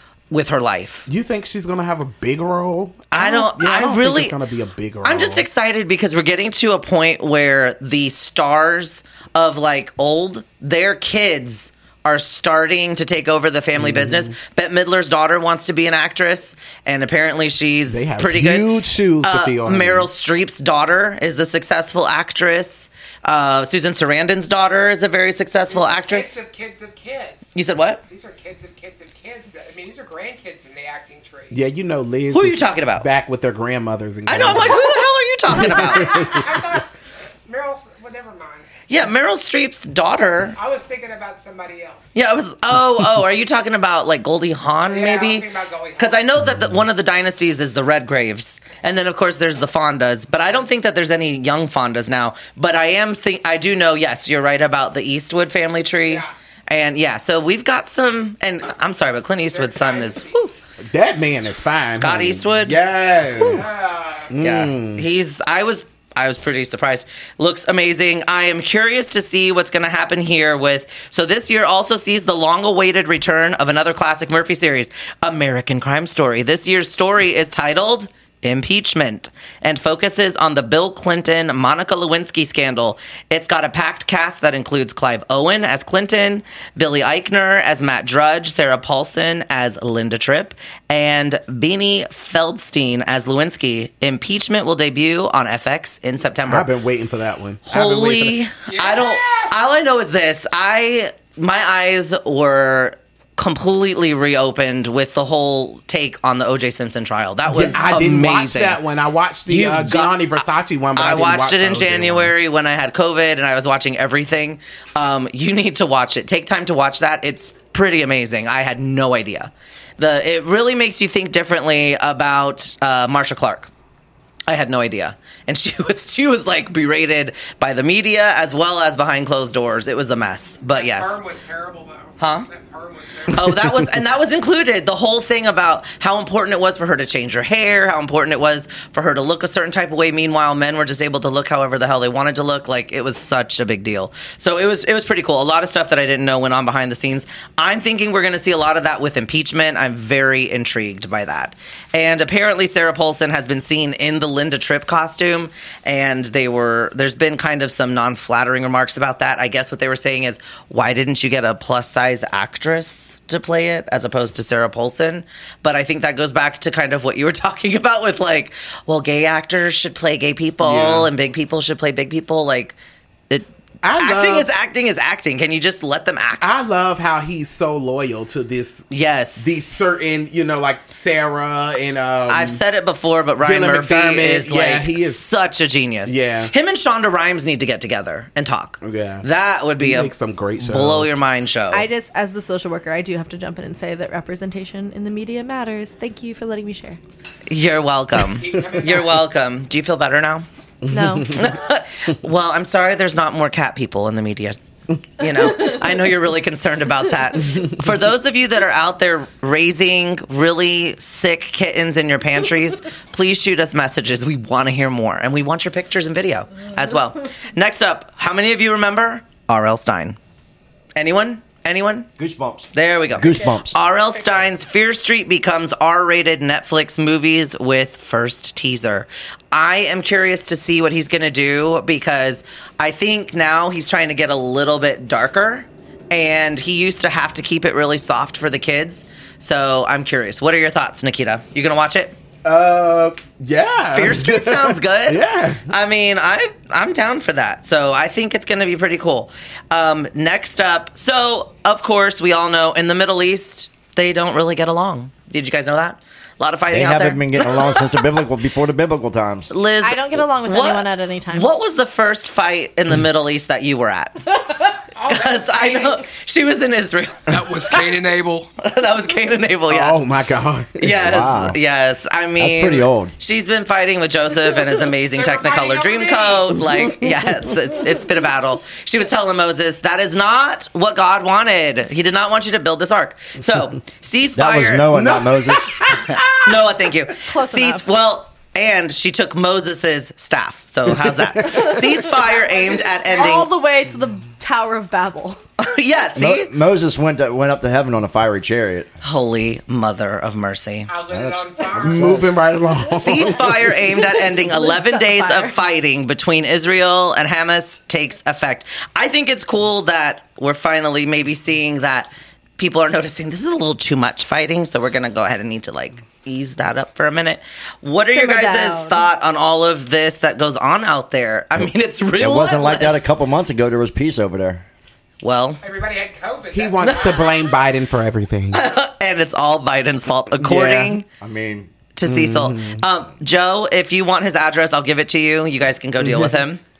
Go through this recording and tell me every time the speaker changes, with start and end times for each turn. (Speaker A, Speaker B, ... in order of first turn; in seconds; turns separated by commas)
Speaker A: 0.3-1.1, Speaker B: 1.1-5.5, Speaker A: 3.1-4.3, Speaker A: 5.0-26.3, Speaker B: 13.8-14.3, Speaker B: 17.9-20.1, Speaker C: 25.7-27.6, Speaker A: 27.5-28.0, Speaker C: 28.1-31.6, Speaker B: 31.5-34.8, Speaker A: 32.3-33.0, Speaker A: 34.3-36.3, Speaker B: 35.5-36.4, Speaker C: 35.8-36.9, Speaker C: 37.5-38.7, Speaker A: 38.9-40.6, Speaker C: 40.5-42.1, Speaker A: 42.1-45.5, Speaker C: 44.8-46.3, Speaker A: 46.0-60.5, Speaker C: 59.5-60.5, Speaker B: 60.8-63.7, Speaker A: 61.1-62.8, Speaker C: 63.5-64.3, Speaker B: 64.3-65.0, Speaker A: 64.4-96.7, Speaker B: 96.5-98.4, Speaker A: 97.7-108.8, Speaker C: 98.6-99.6, Speaker B: 107.5-112.3, Speaker A: 109.5-110.1, Speaker A: 110.9-123.7, Speaker A: 124.5-131.2, Speaker C: 130.7-133.4, Speaker A: 132.2-132.5, Speaker A: 133.3-172.8, Speaker B: 170.6-171.1, Speaker B: 173.8-174.5, Speaker A: 174.0-176.5, Speaker B: 176.4-178.8, Speaker A: 178.9-179.5, Speaker B: 179.4-182.6, Speaker A: 182.3-191.8, Speaker B: 183.4-185.2, Speaker B: 186.1-186.5, Speaker B: 188.8-189.2, Speaker B: 189.8-191.1, Speaker D: 191.7-197.0, Speaker A: 197.5-200.4, Speaker C: 198.3-199.3, Speaker B: 200.8-201.5, Speaker D: 200.9-201.4, Speaker A: 201.3-204.6, Speaker A: 205.2-220.2, Speaker A: 220.9-222.1, Speaker E: 222.2-223.8, Speaker A: 222.7-242.2, Speaker B: 242.4-245.7, Speaker A: 243.9-258.0, Speaker E: 256.7-259.5, Speaker A: 259.5-267.9, Speaker D: 259.8-261.5, Speaker C: 264.9-266.0, Speaker C: 267.3-268.5, Speaker A: 268.6-270.0, Speaker B: 269.7-270.9, Speaker A: 270.8-284.9, Speaker E: 270.9-271.6, Speaker E: 272.4-273.1, Speaker C: 275.1-276.6, Speaker E: 284.3-285.9, Speaker B: 284.9-286.7, Speaker A: 286.4-293.5, Speaker D: 287.3-287.9, Speaker B: 290.9-291.9, Speaker C: 292.1-293.4, Speaker D: 293.1-295.4, Speaker A: 295.6-296.5, Speaker E: 296.1-298.9, Speaker A: 299.0-300.9, Speaker C: 300.9-302.4, Speaker E: 301.1-302.4, Speaker B: 301.8-303.8, Speaker A: 302.9-323.1, Speaker D: 303.8-305.6, Speaker D: 318.1-319.1, Speaker E: 321.6-324.6, Speaker A: 325.2-325.6, Speaker C: 325.6-327.5, Speaker B: 326.5-328.6, Speaker A: 326.8-327.3, Speaker A: 328.5-331.0, Speaker B: 330.4-331.0, Speaker E: 331.2-331.7, Speaker A: 331.9-336.6, Speaker B: 332.1-332.8, Speaker B: 336.0-336.4